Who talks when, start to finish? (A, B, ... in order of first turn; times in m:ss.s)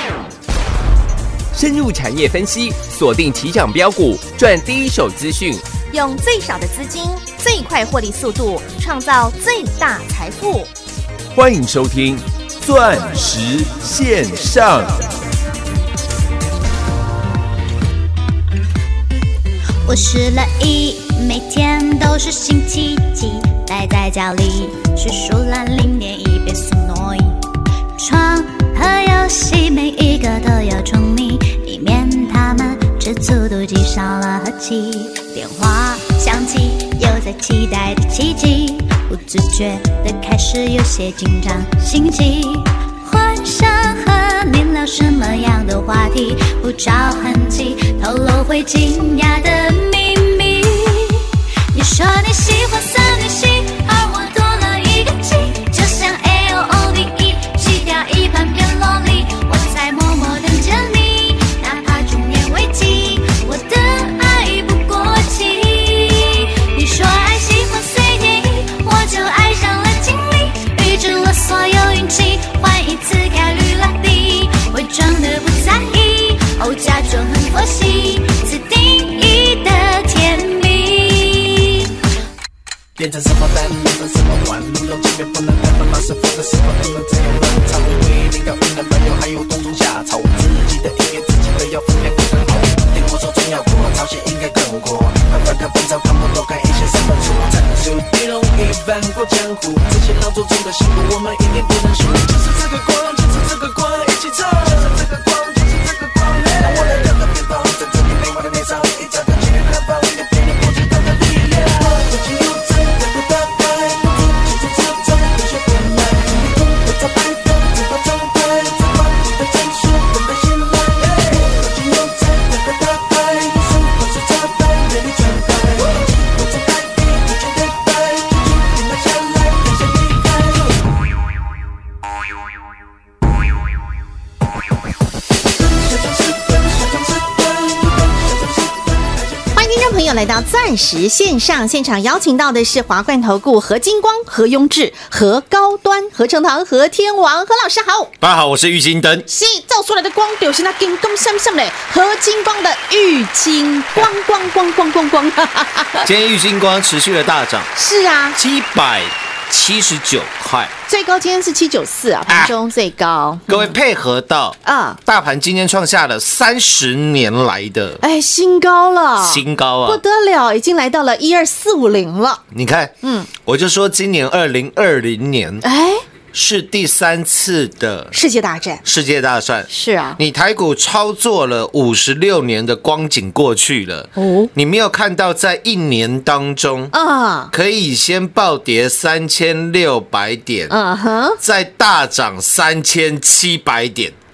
0:01.5-0:05.6 A
0:05.9-0:10.7 B
0:11.3-0:15.0 A
0:19.8-0:27.4 C
0:28.0-1:21.9 C
1:23.0-2:10.9 D
2:15.6-2:19.5 D
2:19.5-2:28.1 B
2:28.2-2:29.3 E
2:29.3-2:36.1 B
2:36.0-2:37.7 E
2:37.7-2:38.4 B
2:38.3-2:40.7 E
2:40.9-2:43.8 B
2:42.3-2:42.5 E
2:43.5-2:48.0 E
2:44.6-2:45.0 B
2:48.0-2:52.4 B
2:49.2-2:50.0 E
2:52.5-2:55.6 E
2:53.0-2:53.3 B
2:55.6-2:56.0 B
2:56.3-2:58.2 E
2:58.1-2:58.8 B
2:58.8-3:06.9 E
2:59.7-3:00.2 B
3:04.2-3:04.5 B
3:06.9-3:07.5 B
3:07.5-3:10.8 E
3:10.7-3:11.4 B
3:11.4-3:14.1 E